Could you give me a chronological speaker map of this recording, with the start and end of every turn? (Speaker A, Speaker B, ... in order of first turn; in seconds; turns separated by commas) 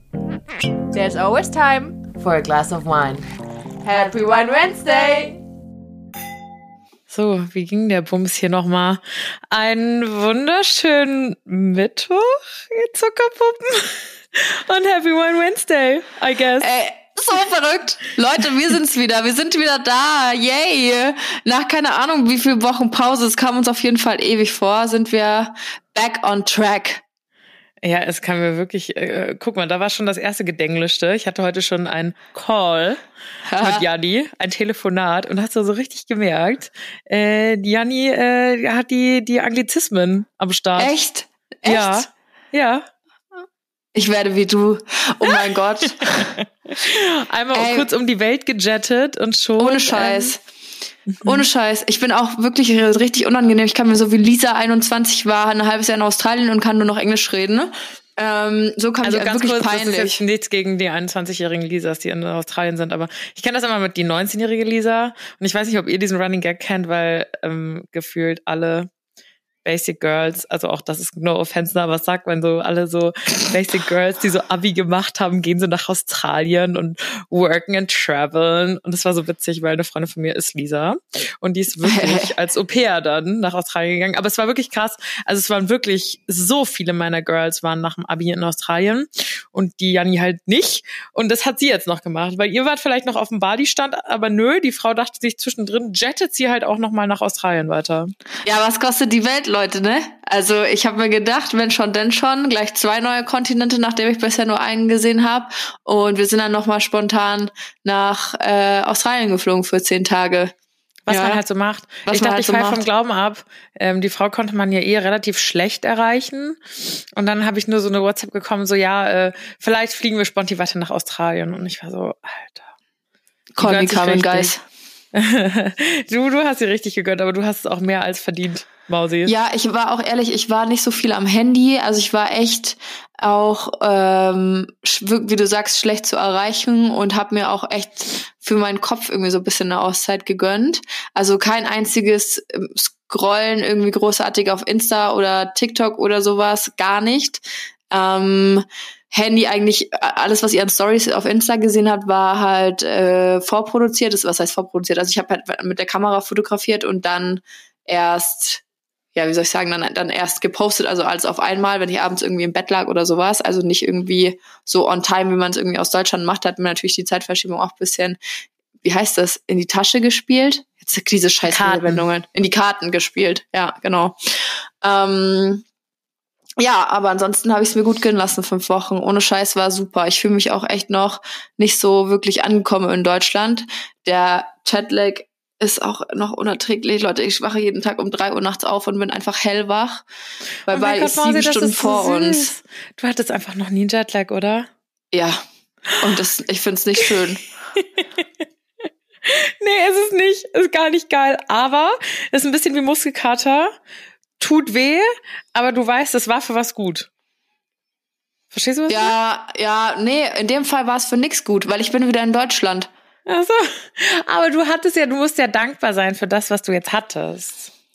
Speaker A: 0.9-3.2, Speaker A: 3.8-5.4, Speaker B: 7.1-16.7, Speaker C: 16.6-27.0, Speaker B: 27.8-33.0, Speaker C: 33.5-33.9, Speaker B: 33.6-40.9, Speaker C: 40.8-42.1, Speaker B: 41.7-42.9, Speaker C: 44.0-46.3, Speaker B: 46.0-50.4, Speaker C: 47.5-47.9, Speaker C: 49.6-50.4, Speaker B: 51.2-51.5, Speaker C: 51.2-60.2, Speaker B: 59.0-68.9, Speaker B: 69.7-98.1, Speaker C: 81.8-82.3, Speaker C: 98.5-110.5, Speaker B: 111.1-122.7, Speaker C: 111.1-111.4, Speaker C: 112.1-112.8, Speaker C: 123.5-124.6, Speaker B: 123.6-124.5, Speaker B: 125.1-129.3, Speaker C: 129.2-158.6, Speaker C: 159.2-168.2, Speaker C: 168.8-175.6, Speaker B: 171.5-172.1, Speaker C: 176.6-190.0, Speaker C: 190.7-192.5, Speaker B: 190.7-194.7, Speaker C: 195.1-195.4, Speaker C: 196.0-197.4, Speaker B: 197.8-198.3, Speaker B: 199.2-203.7, Speaker B: 204.4-207.1, Speaker B: 208.5-209.1, Speaker C: 208.9-212.9, Speaker B: 213.3-217.7